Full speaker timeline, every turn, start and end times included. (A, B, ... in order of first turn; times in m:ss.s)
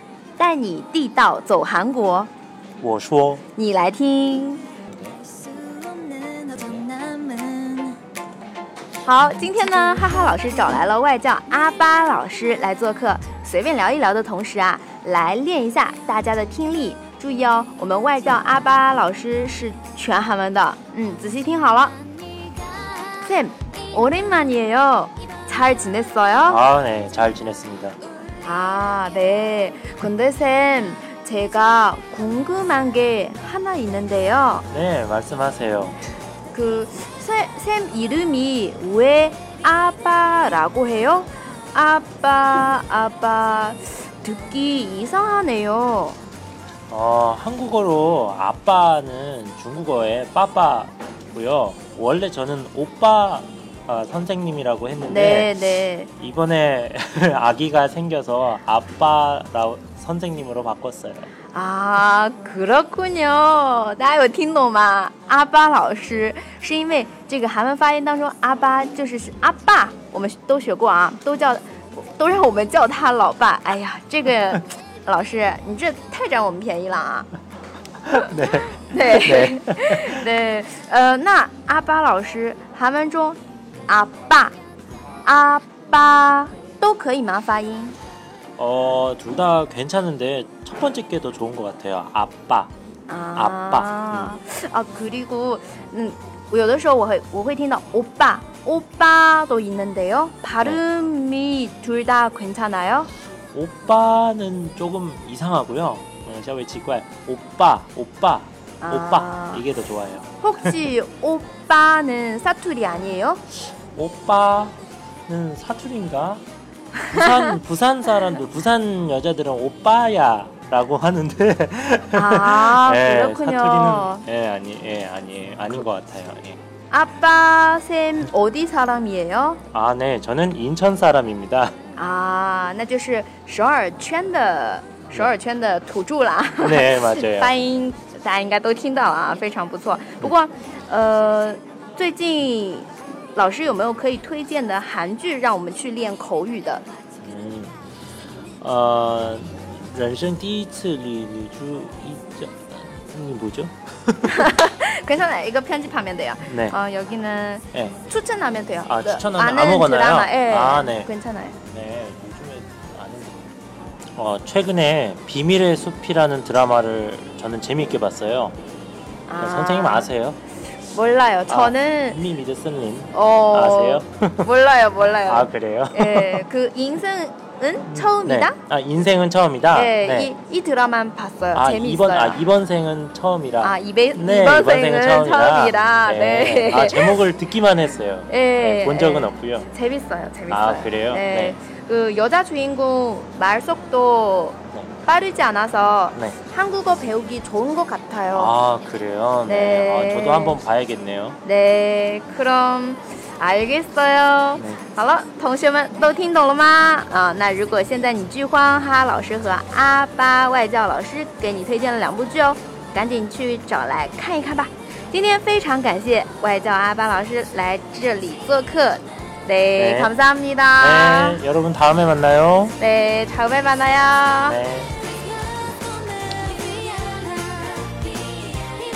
0:00.4-0:02.3 A
0:02.8-0:03.4 B
0:03.5-0:04.6 A
0:05.6-0:07.8 C
0:07.1-0:07.6 A
0:09.0-0:22.0 A
0:23.2-0:26.6 A
0:26.4-0:28.0 B
0:28.4-0:34.7 A
0:34.7-0:36.0 B
0:36.5-0:46.2 A
0:46.9-0:55.5 B
0:55.1-0:56.1 A
0:56.2-1:01.3 B
1:01.5-1:17.3 A
1:18.1-1:20.2 B
1:18.1-1:24.5 A
1:25.2-1:28.0 A
1:28.6-1:32.7 B
1:33.1-1:43.1 A
1:33.3-1:34.3 B
1:43.5-1:50.8 B
1:48.8-1:49.6 A
1:50.4-1:53.4 A
1:53.8-1:56.4 B
1:57.0-1:57.5 A
1:57.1-2:06.6 B
2:02.1-2:04.2 A
2:06.9-2:09.6 A
2:09.7-2:11.8 B
2:12.0-2:26.8 A
2:16.6-2:17.6 B
2:27.2-2:27.8 B
2:28.6-2:34.5 B
2:34.3-2:41.6 A
2:36.4-2:36.8 B
2:38.8-2:41.1 B
2:41.7-2:43.5 B
2:44.2-2:48.6 B
2:49.3-2:50.1 A
2:49.4-2:50.4 B
2:50.9-2:52.2 A
2:51.5-2:54.5 B
2:53.1-2:58.6 A
2:55.2-2:56.4 B
2:57.9-3:00.3 B
2:59.7-3:02.5 A
3:01.5-3:09.7 B
3:03.6-3:07.2 A
3:08.3-3:18.5 A
3:10.5-3:11.6 B
3:18.3-3:21.4 B
3:19.5-3:20.6 A
3:21.4-3:41.4 A
3:39.8-3:40.1 B
3:40.8-3:42.8 B
3:42.8-3:44.6 A
3:44.5-3:45.0 B
3:46.4-3:47.8 A